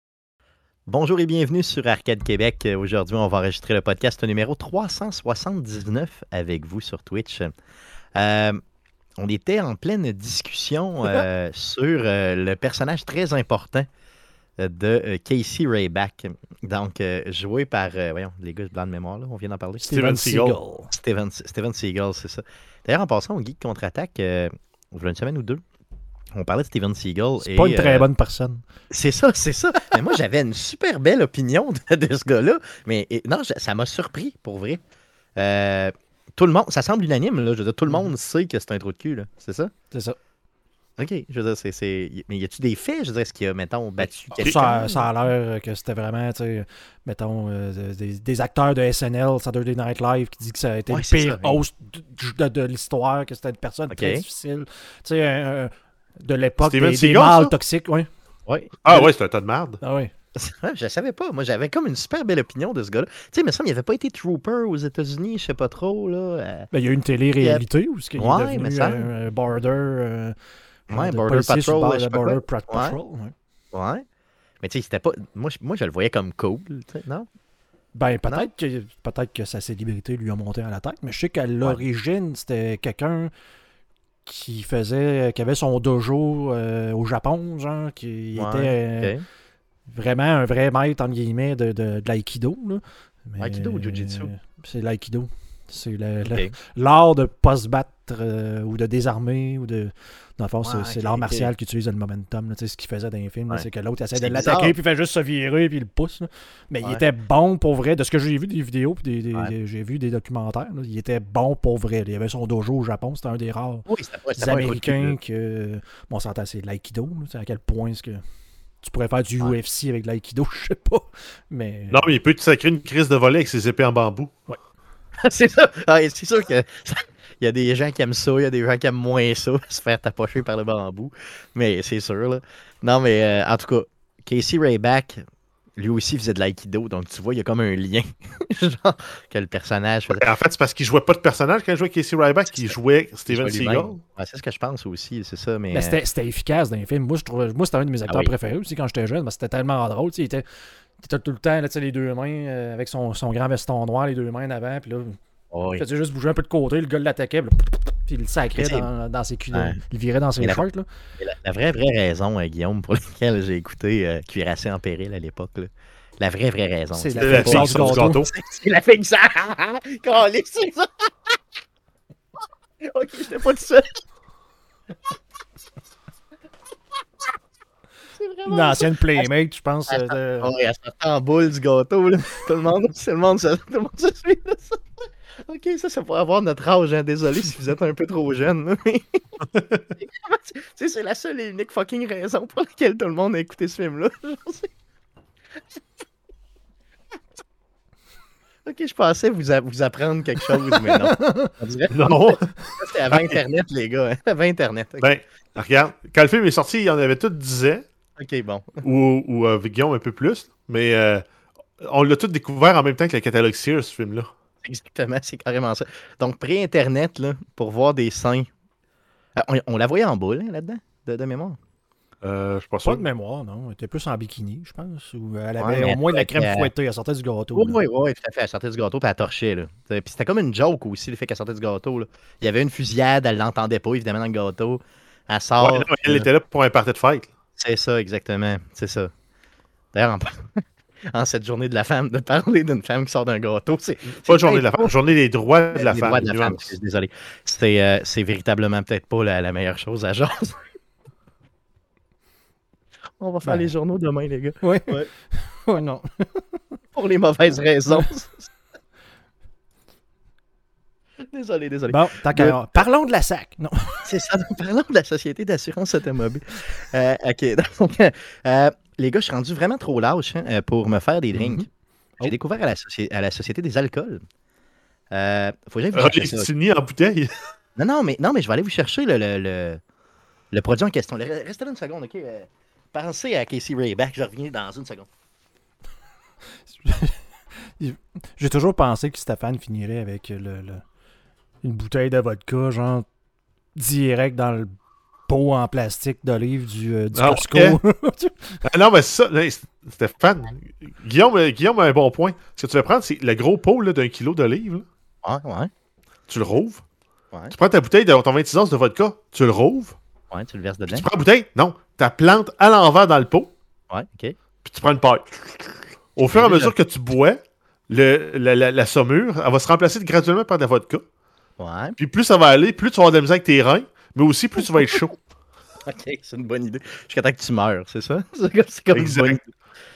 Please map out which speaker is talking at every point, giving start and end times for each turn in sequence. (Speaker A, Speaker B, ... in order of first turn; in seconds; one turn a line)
Speaker A: 0.9-7.5
Speaker A: 8.2-8.6
Speaker A: 9.2-13.9
Speaker A: 14.6-19.9
Speaker B: 19.8-20.9
Speaker C: 19.9-20.6
Speaker A: 20.9-25.6
Speaker A: 26.4-28.1
Speaker B: 27.4-28.6
Speaker A: 28.9-34.8
Speaker A: 35.4-39.7
Speaker B: 39.9-40.2
Speaker A: 41.0-45.1
Speaker B: 44.4-58.1
Speaker A: 50.9-51.6
Speaker A: 53.9-54.2
Speaker C: 56.6-57.5
Speaker A: 58.5-59.1
Speaker C: 58.8-59.8
Speaker B: 59.8-60.1
Speaker A: 60.4-66.7
Speaker B: 66.7-73.3
Speaker A: 67.4-67.7
Speaker A: 68.2-69.1
Speaker A: 70.9-73.0
Speaker A: 73.7-74.0
Speaker A: 74.6-77.3
Speaker B: 78.0-83.3
Speaker B: 84.2-89.2
Speaker A: 88.3-89.2
Speaker B: 89.9-113.9
Speaker A: 93.4-94.3
Speaker A: 96.2-96.5
Speaker A: 100.6-101.5
Speaker A: 103.5-104.8
Speaker A: 113.9-115.2
Speaker B: 114.4-118.2
Speaker B: 118.8-122.1
Speaker C: 121.9-124.3
Speaker A: 125.2-135.2
Speaker A: 135.8-140.2
Speaker C: 140.1-144.0
Speaker A: 142.5-142.8
Speaker A: 143.3-146.0
Speaker B: 145.7-150.5
Speaker A: 148.1-148.3
Speaker B: 151.0-155.2
Speaker A: 155.5-155.8
Speaker B: 155.8-160.9
Speaker A: 158.6-158.9
Speaker A: 159.5-159.8
Speaker A: 161.2-171.1
Speaker B: 166.9-168.2
Speaker C: 167.2-168.3
Speaker A: 172.9-174.0
Speaker A: 178.2-179.3
Speaker B: 178.5-180.5
Speaker A: 179.9-184.8
Speaker A: 185.4-189.2
Speaker A: 190.0-194.7
Speaker A: 198.7-205.1
Speaker B: 200.8-201.5
Speaker C: 201.9-203.4
Speaker C: 205.0-207.8
Speaker A: 208.2-208.7
Speaker C: 208.8-211.2
Speaker C: 211.8-214.3
Speaker A: 214.6-218.5
Speaker A: 219.4-221.6
Speaker C: 222.2-223.0
Speaker B: 222.8-227.8
Speaker A: 225.6-226.7
Speaker A: 227.5-236.3
Speaker C: 235.6-237.3
Speaker A: 237.6-239.1
Speaker A: 239.9-240.3
Speaker A: 241.1-244.9
Speaker C: 244.1-246.7
Speaker A: 245.7-250.6
Speaker A: 253.2-255.1
Speaker B: 253.4-253.7
Speaker B: 254.6-256.6
Speaker A: 256.9-258.5
Speaker A: 261.3-262.9
Speaker B: 261.9-264.0
Speaker A: 264.1-271.7
Speaker B: 271.3-271.6
Speaker A: 272.2-274.2
Speaker A: 275.1-276.5
Speaker C: 275.9-277.3
Speaker A: 277.8-279.8
Speaker A: 280.5-285.1
Speaker B: 286.7-287.2
Speaker B: 287.8-290.8
Speaker B: 291.6-293.1
Speaker B: 293.8-294.7
Speaker B: 295.3-298.6
Speaker C: 297.1-297.8
Speaker C: 298.6-304.9
Speaker A: 305.2-305.7
Speaker C: 306.3-306.8
Speaker C: 307.5-310.0
Speaker A: 310.3-311.1
Speaker C: 310.9-313.5
Speaker A: 313.9-314.4
Speaker C: 314.6-321.0
Speaker A: 316.3-316.7
Speaker A: 321.6-322.0
Speaker C: 322.0-325.2
Speaker A: 325.9-329.5
Speaker C: 328.9-329.4